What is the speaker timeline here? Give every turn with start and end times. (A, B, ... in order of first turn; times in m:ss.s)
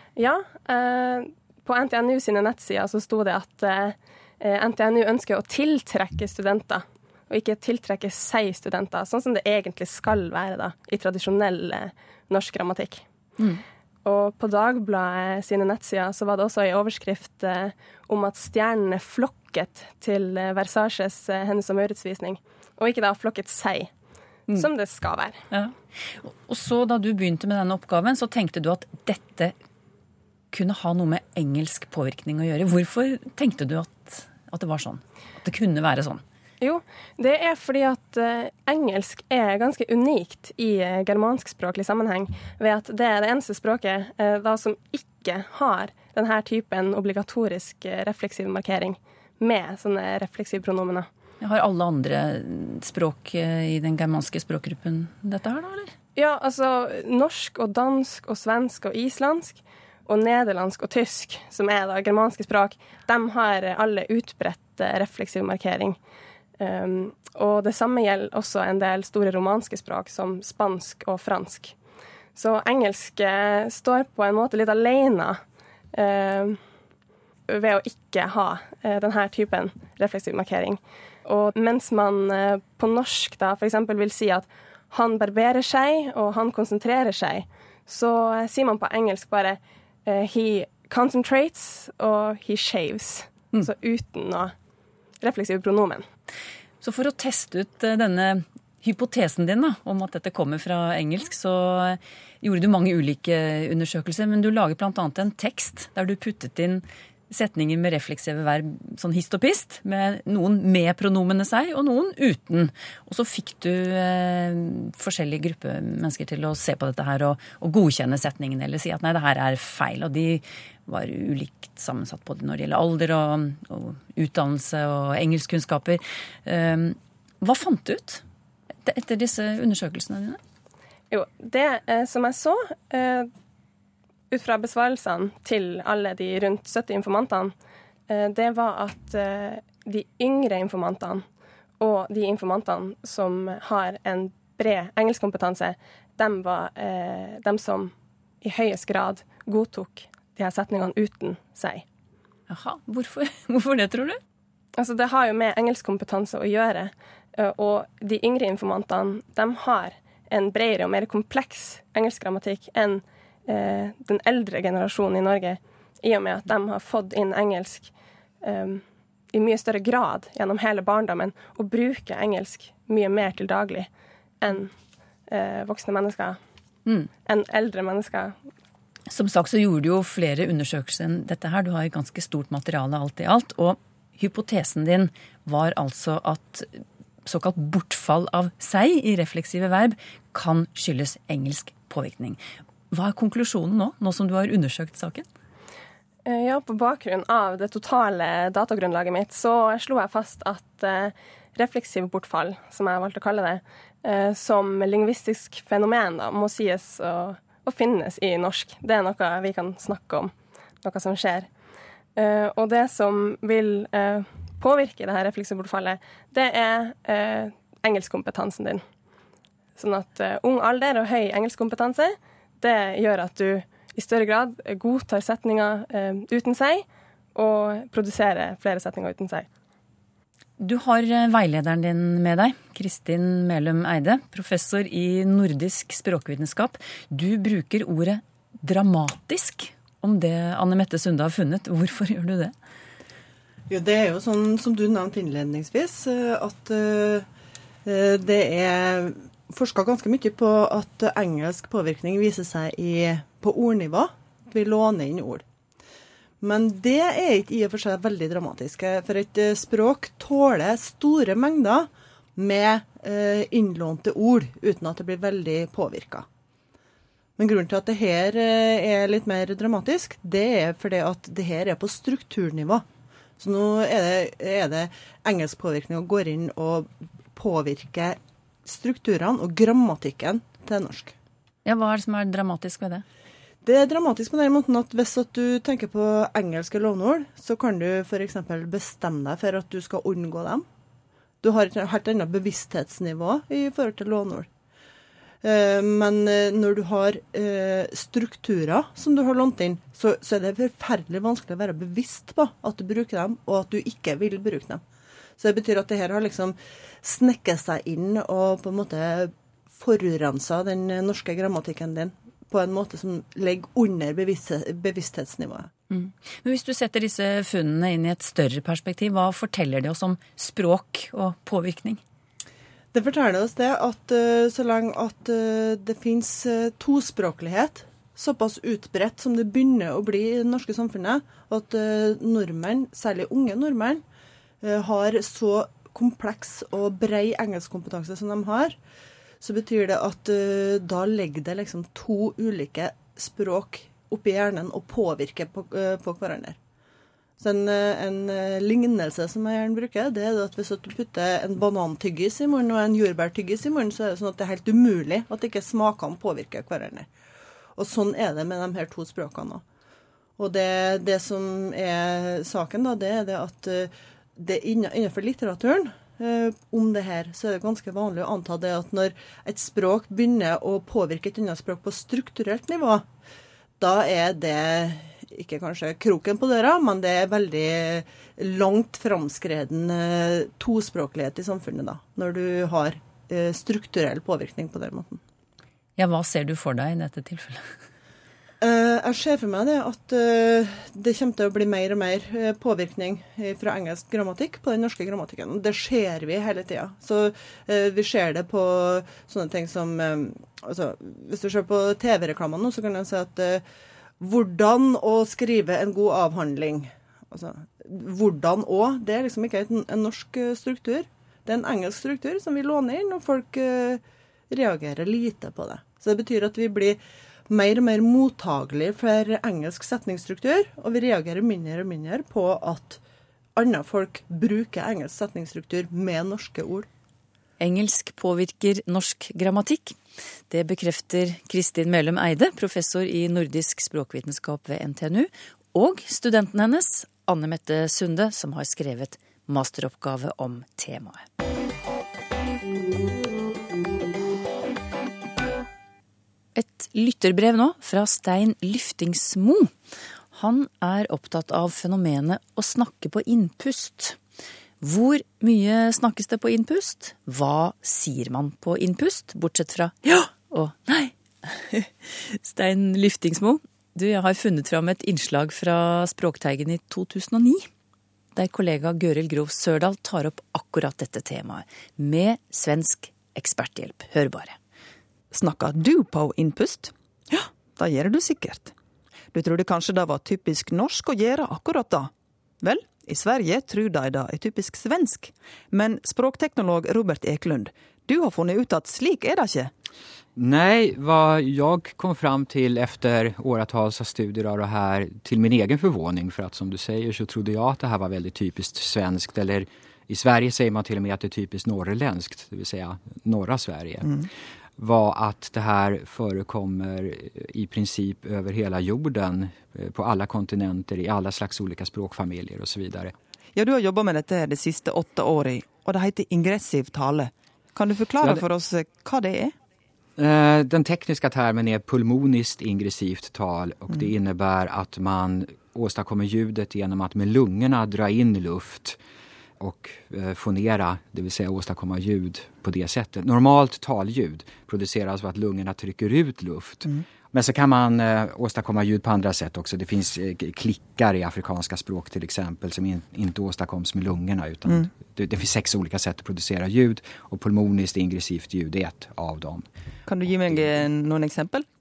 0:00.2-0:13.0 A
0:14.0-0:23.9 A
0:24.5-0:25.4 A
0:25.5-0:29.6 B
0:30.5-0:36.2 B
0:36.6-0:51.1 A
0:51.4-0:55.9 B
0:56.2-1:06.0 A
1:06.6-1:11.8 A
1:12.4-1:15.4 A
1:15.9-1:16.6 A
1:17.5-1:34.5 A
1:35.2-1:36.0 A
1:36.8-2:08.2 B
2:08.8-2:10.4 B
2:11.1-2:13.3 A
2:14.3-2:17.6 A
2:18.1-2:21.3 A
2:21.8-2:31.8 A
2:32.5-2:34.2 B
2:34.8-2:47.9 A
2:48.4-2:53.9 A
2:54.4-2:54.7 A
2:55.3-2:56.4 A
2:57.2-2:58.4 A
2:59.1-3:12.4 B
3:12.9-3:15.3 B
3:16.3-3:31.5 A
3:32.2-3:38.8 A
3:39.8-3:49.5 A
3:50.6-4:02.5 B
4:03.7-4:07.3 C
4:07.8-4:15.4 C
4:16.4-4:26.3 C
4:27.4-4:32.8 C
4:33.4-4:41.1 C
4:41.7-4:43.0 B
4:43.6-4:50.7 C
4:51.4-4:54.5 C
4:55.4-5:04.8 C
5:05.4-5:15.7 C
5:15.9-5:22.0 B
5:22.9-5:34.0 C
5:34.6-5:38.8 C
5:39.4-5:46.6 C
5:47.4-5:57.1 C
5:57.8-5:59.6 C
6:00.4-6:13.0 C
6:13.8-6:25.2 C
6:26.0-6:27.7 B
6:28.6-6:43.6 C
6:44.2-7:03.0 C
7:03.6-7:06.9 C
7:07.6-7:10.0 B
7:10.5-7:21.2 B
7:26.6-7:29.7 B
7:30.3-7:34.2 B
7:34.8-7:47.7 B
7:48.4-7:54.6 B
7:55.3-7:58.7 D
7:59.3-8:02.1 D
8:02.6-8:09.7 D
8:10.4-8:24.3 E
8:24.8-8:33.1 E
8:33.6-8:39.5 D
8:40.2-8:49.0 E
8:49.6-9:09.7 E
9:10.1-9:11.6 D
9:10.5-9:10.8 E